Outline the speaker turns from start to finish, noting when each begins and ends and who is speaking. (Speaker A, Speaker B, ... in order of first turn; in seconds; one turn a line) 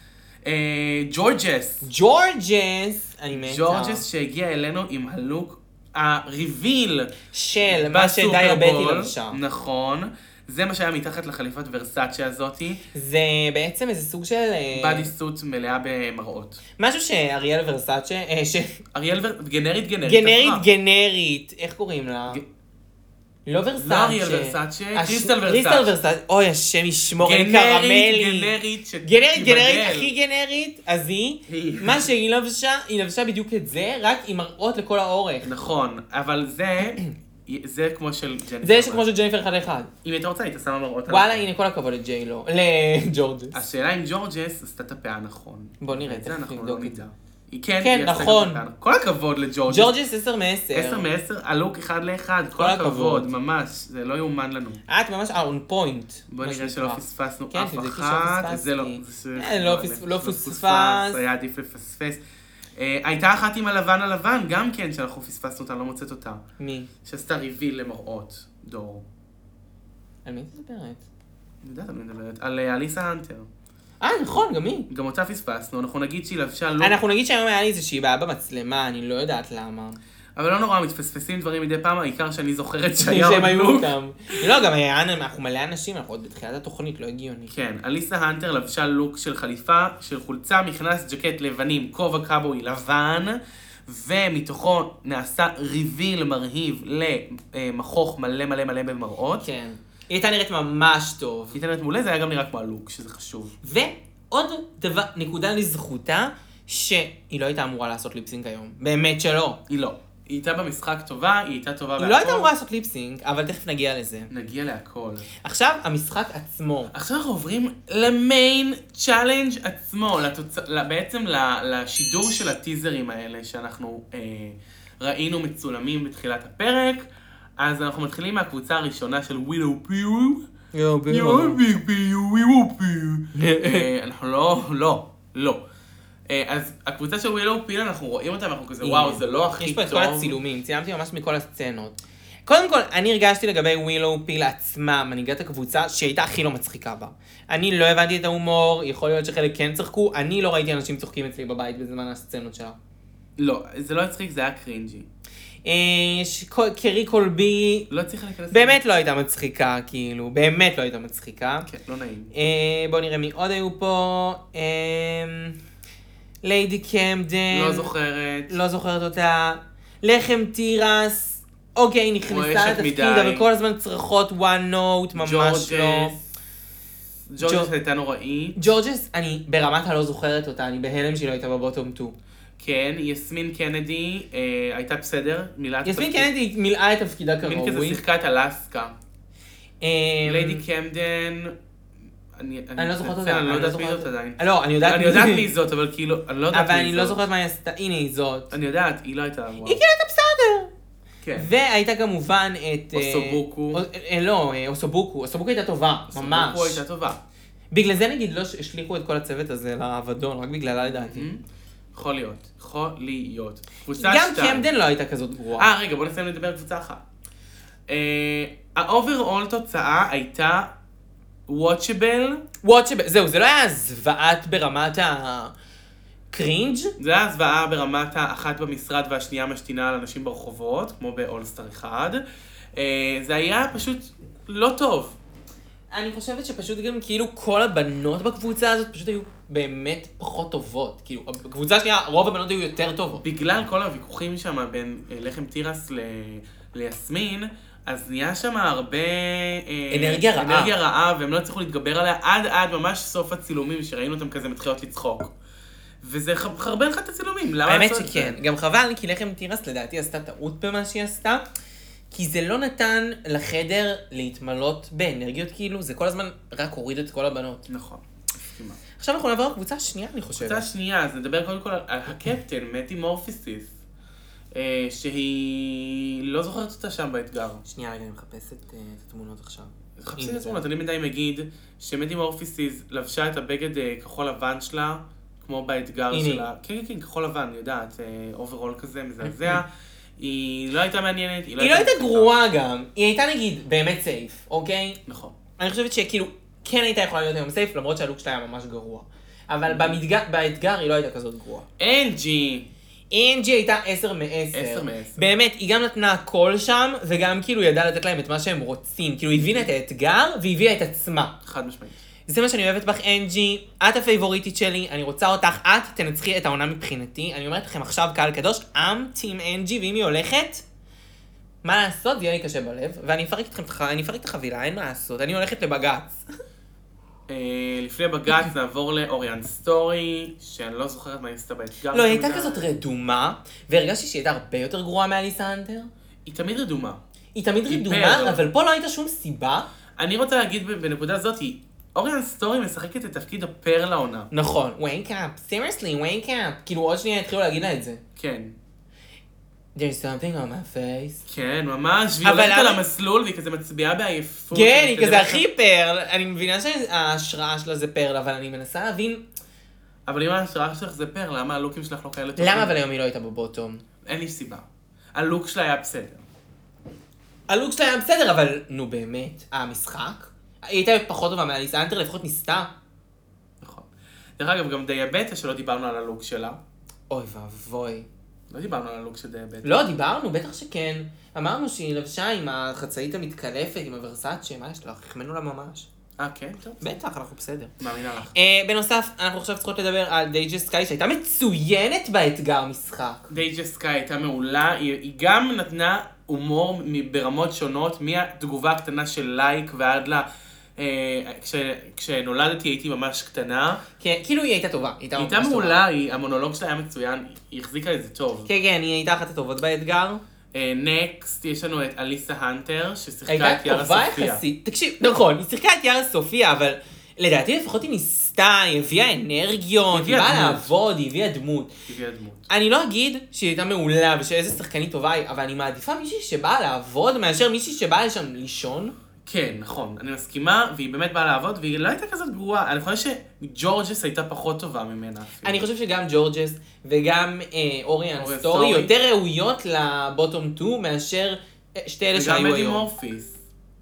Speaker A: 0.4-1.9
Speaker B: 1.8-4.0
Speaker A: 3.3-7.1
Speaker B: 7.3-9.4
Speaker A: 7.7-12.8
Speaker B: 12.9-15.1
Speaker A: 14.7-16.6
Speaker B: 16.8-18.8
Speaker A: 18.9-20.7
Speaker B: 20.0-22.4
Speaker B: 23.4-35.5
Speaker A: 23.8-25.9
Speaker A: 27.2-30.1
Speaker A: 31.5-32.1
Speaker A: 35.4-39.0
Speaker B: 38.6-39.9
Speaker A: 40.0-41.5
Speaker B: 41.1-43.6
Speaker A: 43.5-49.9
Speaker B: 45.8-47.0
Speaker B: 47.8-48.6
Speaker B: 49.7-51.1
Speaker A: 50.7-54.8
Speaker B: 52.6-53.3
Speaker B: 54.9-61.2
Speaker A: 56.3-62.2
Speaker A: 62.8-66.4
Speaker B: 66.6-66.9
Speaker A: 67.0-69.0
Speaker B: 70.2-71.0
Speaker A: 71.6-73.5
Speaker B: 74.0-74.9
Speaker A: 74.9-77.0
Speaker B: 76.8-80.0
Speaker A: 80.3-83.9
Speaker B: 83.0-87.6
Speaker A: 87.5-99.4
Speaker B: 99.4-101.6
Speaker A: 101.5-103.5
Speaker B: 103.6-109.6
Speaker A: 109.7-112.5
Speaker B: 112.0-114.3
Speaker A: 114.3-115.3
Speaker B: 115.4-116.9
Speaker A: 116.9-130.4
Speaker B: 130.7-131.6
Speaker A: 131.1-135.6
Speaker B: 133.3-133.9
Speaker A: 136.3-140.4
Speaker B: 138.8-152.8
Speaker A: 153.4-155.1
Speaker B: 155.6-157.9
Speaker A: 157.9-158.8
Speaker B: 158.5-161.7
Speaker A: 161.7-162.3
Speaker B: 162.3-165.6
Speaker B: 166.4-167.9
Speaker A: 167.5-168.6
Speaker B: 168.5-176.2
Speaker A: 172.3-173.4
Speaker A: 175.1-176.2
Speaker A: 177.3-178.7
Speaker B: 177.4-177.7
Speaker B: 178.6-182.1
Speaker A: 182.6-186.3
Speaker B: 185.8-188.0
Speaker A: 187.4-188.9
Speaker B: 189.8-190.6
Speaker A: 190.2-191.5
Speaker A: 192.3-197.2
Speaker B: 192.8-195.5
Speaker B: 196.5-198.5
Speaker A: 198.5-199.8
Speaker B: 199.6-200.7
Speaker A: 201.2-201.5
Speaker B: 201.4-206.8
Speaker A: 202.9-203.8
Speaker A: 206.1-207.2
Speaker B: 207.7-211.3
Speaker A: 210.8-211.4
Speaker A: 211.9-214.7
Speaker B: 213.9-215.7
Speaker A: 215.6-217.0
Speaker A: 217.9-220.7
Speaker A: 221.5-222.4
Speaker B: 222.6-225.5
Speaker B: 226.3-226.9
Speaker A: 227.0-232.2
Speaker A: 232.7-235.2
Speaker B: 235.9-243.2
Speaker A: 243.2-255.3
Speaker B: 249.9-250.7
Speaker A: 256.0-258.4
Speaker B: 257.6-261.4
Speaker B: 262.1-267.6
Speaker A: 267.7-268.8
Speaker B: 269.0-270.7
Speaker A: 270.4-273.7
Speaker A: 274.5-277.6
Speaker B: 277.6-280.6
Speaker A: 280.0-292.3
Speaker B: 286.1-286.4
Speaker B: 289.2-289.6
Speaker B: 291.6-295.0
Speaker A: 295.1-295.4
Speaker B: 295.6-301.7
Speaker A: 299.7-300.0
Speaker A: 301.8-302.7
Speaker B: 303.1-311.4
Speaker A: 304.5-305.3
Speaker A: 309.3-309.7
Speaker A: 311.4-312.0
Speaker B: 312.3-320.6
Speaker B: 321.6-326.2
Speaker A: 327.3-332.7
Speaker B: 331.9-335.9
Speaker A: 336.2-337.0
Speaker B: 337.3-339.7
Speaker A: 337.6-338.4
Speaker A: 340.0-344.3
Speaker B: 344.3-348.0
Speaker A: 348.1-348.6
Speaker B: 349.7-351.2
Speaker A: 351.2-355.4
Speaker B: 352.2-352.8
Speaker B: 354.5-359.2
Speaker A: 360.1-362.8
Speaker B: 362.4-363.8
Speaker A: 364.0-366.2
Speaker B: 367.5-372.7
Speaker A: 373.6-376.6
Speaker B: 377.1-378.1
Speaker A: 378.5-379.8
Speaker B: 379.6-385.9
Speaker A: 386.2-387.0
Speaker B: 386.8-387.7
Speaker A: 387.8-388.3
Speaker B: 388.3-393.2
Speaker A: 393.3-403.8
Speaker B: 404.0-405.8
Speaker A: 405.2-408.5
Speaker B: 408.4-410.2
Speaker A: 410.5-414.4
Speaker B: 413.3-421.7
Speaker A: 419.9-420.7
Speaker A: 421.9-422.5
Speaker B: 422.5-428.9
Speaker A: 429.2-435.6
Speaker B: 435.4-442.9
Speaker A: 438.2-438.9
Speaker A: 442.1-443.4